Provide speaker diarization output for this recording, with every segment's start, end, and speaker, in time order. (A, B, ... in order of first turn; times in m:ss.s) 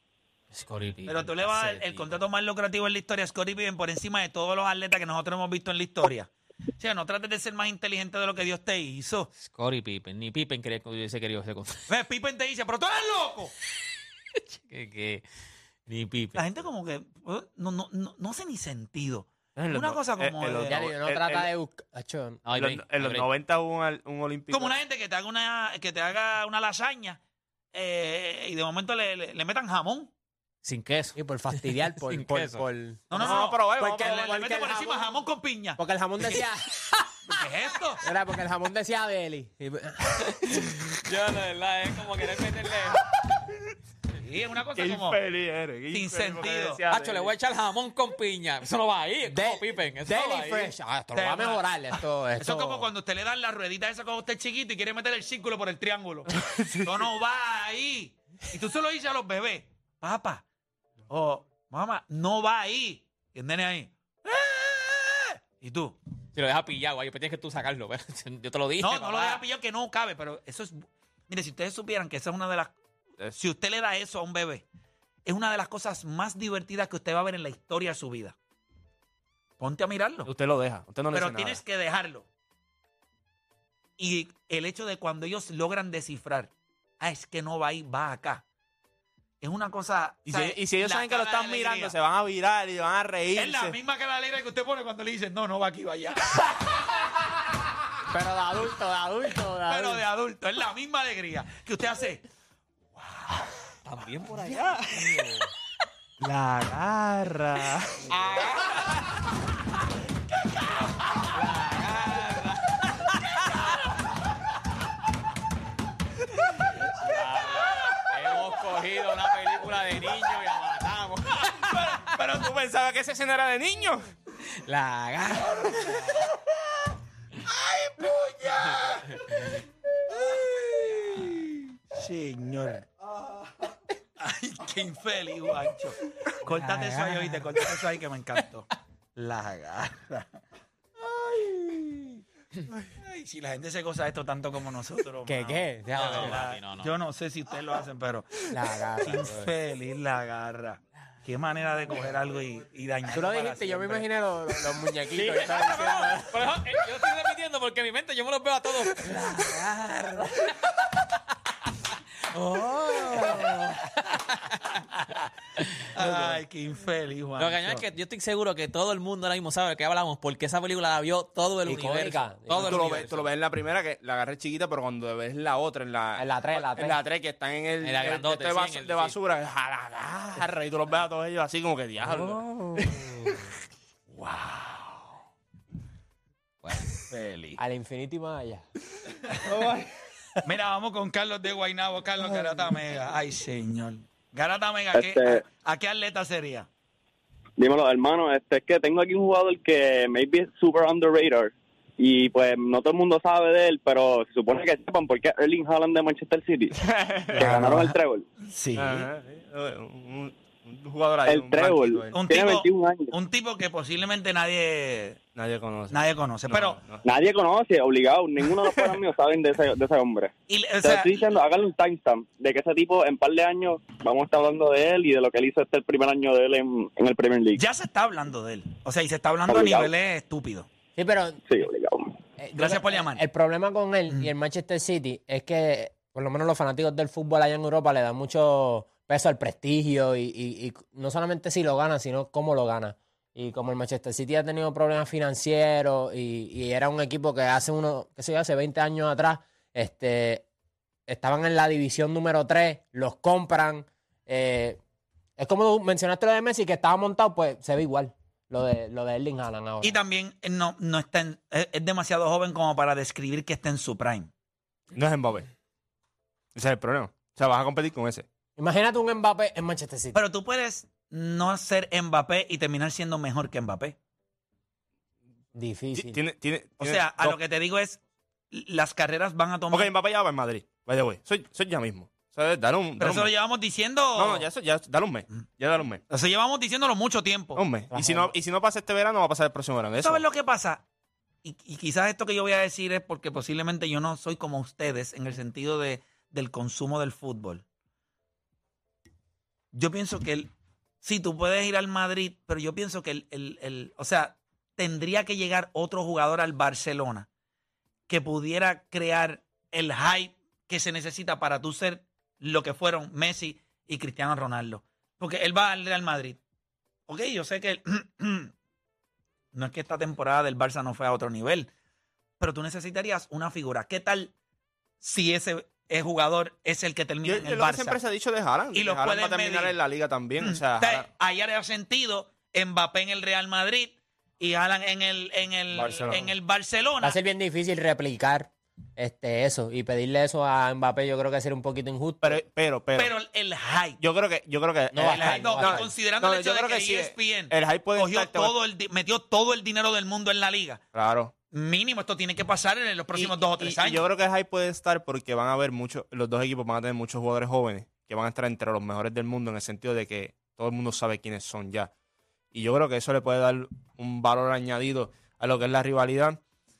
0:00.5-0:02.1 A
0:01.1-0:09.3 B
0:09.4-0:11.8 A
0:11.9-0:13.5 B
0:14.6-0:15.2 A
0:15.9-0:16.4 A
0:16.3-0:20.8 B
0:19.6-0:21.5 C
0:20.6-0:22.4 D
0:22.4-0:23.3 A
0:22.5-0:24.8 C
0:24.5-0:27.2 B
0:27.7-0:30.1 B
0:30.6-0:32.6 A
0:31.2-0:35.2 D
0:33.1-0:36.3 B
0:33.1-0:34.6 C
0:35.8-0:36.8 D
0:37.3-0:38.0 B
0:38.0-0:40.1 D
0:40.3-0:43.0 A
0:44.2-0:45.2 B
0:44.8-0:47.3 C
0:45.9-0:46.8 B
0:46.9-0:50.7 A
0:49.2-0:52.9 D
0:51.1-0:51.6 B
0:52.4-1:00.4 B
0:56.5-0:56.9 C
1:01.1-1:06.0 B
1:06.3-1:09.4 A
1:08.8-1:12.7 B
1:13.4-1:14.6 B
1:15.2-1:18.3 B
1:19.6-1:20.3 B
1:20.2-1:21.6 C
1:21.1-1:22.3 B
1:24.0-1:28.4 B
1:29.4-1:32.0 B
1:30.3-1:33.8 C
1:33.4-1:36.5 B
1:38.1-1:40.0 D
1:39.7-1:42.2 B
1:43.8-1:45.4 A
1:46.2-1:48.1 C
1:48.1-1:48.8 A
1:51.2-1:53.6 A
1:56.9-2:02.0 A
2:01.7-2:02.5 B
2:02.1-2:04.1 C
2:04.4-2:06.2 A
2:07.5-2:09.0 B
2:08.7-2:09.6 A
2:11.9-2:12.9 B
2:14.2-2:20.3 B
2:16.5-2:17.4 D
2:21.3-2:22.0 D
2:23.0-2:28.5 B
2:25.2-2:26.4 D
2:25.9-2:26.9 A
2:28.5-2:29.5 D
2:29.0-2:34.0 B
2:33.1-2:36.4 D
2:35.1-2:41.0 A
2:42.3-2:44.8 A
2:44.9-2:45.2 B
2:45.6-2:46.0 A
2:45.9-2:47.7 B
2:47.4-2:53.2 A
2:51.6-2:53.1 D
2:52.5-3:03.4 C
2:56.2-2:57.0 D
2:57.8-2:59.2 A
3:02.0-3:03.4 D
3:07.0-3:07.6 B
3:07.6-3:08.6 D
3:10.4-3:16.7 B
3:14.9-3:15.4 E
3:17.6-3:26.8 E
3:26.8-3:27.7 C
3:27.4-3:29.1 B
3:27.4-3:28.2 E
3:28.8-3:32.2 C
3:31.3-3:33.1 E
3:32.1-3:35.2 B
3:35.3-3:37.0 C
3:35.9-3:36.8 B
3:37.0-3:47.6 E
3:40.5-3:41.3 B
3:47.6-3:50.7 B
3:49.5-3:49.9 E
3:50.9-3:51.4 D
3:51.4-3:52.2 E
3:52.4-4:10.4 D
3:52.5-3:53.2 B
4:11.1-4:14.8 D
4:15.4-4:20.0 D
4:19.8-4:24.3 B
4:24.9-4:25.5 C
4:26.5-4:28.2 C
4:28.6-4:30.2 D
4:30.1-4:34.0 B
4:35.5-4:36.2 D
4:35.9-4:37.4 C
4:36.8-4:38.0 B
4:38.5-4:39.9 B
4:39.7-4:43.3 C
4:43.0-4:44.5 B
4:44.1-4:46.0 C
4:46.1-4:47.6 B
4:47.6-4:50.2 C
4:47.9-4:48.3 D
4:50.0-4:50.8 B
4:51.4-4:57.6 B
4:59.7-5:00.5 B
5:01.0-5:07.3 B
5:08.1-5:16.4 B
5:17.1-5:18.5 B
5:19.5-5:21.7 B
5:22.4-5:24.3 B
5:25.0-5:28.0 B
5:27.2-5:31.1 C
5:28.7-5:29.8 B
5:30.4-5:37.2 B
5:35.7-5:36.3 C
5:37.0-5:42.4 D
5:42.2-5:43.1 C
5:43.0-5:44.0 B
5:44.0-5:48.5 C
5:44.9-5:45.9 D
5:45.0-5:50.8 B
5:50.9-5:51.3 C
5:51.5-5:54.0 B
5:53.1-6:01.9 C
6:02.5-6:06.4 C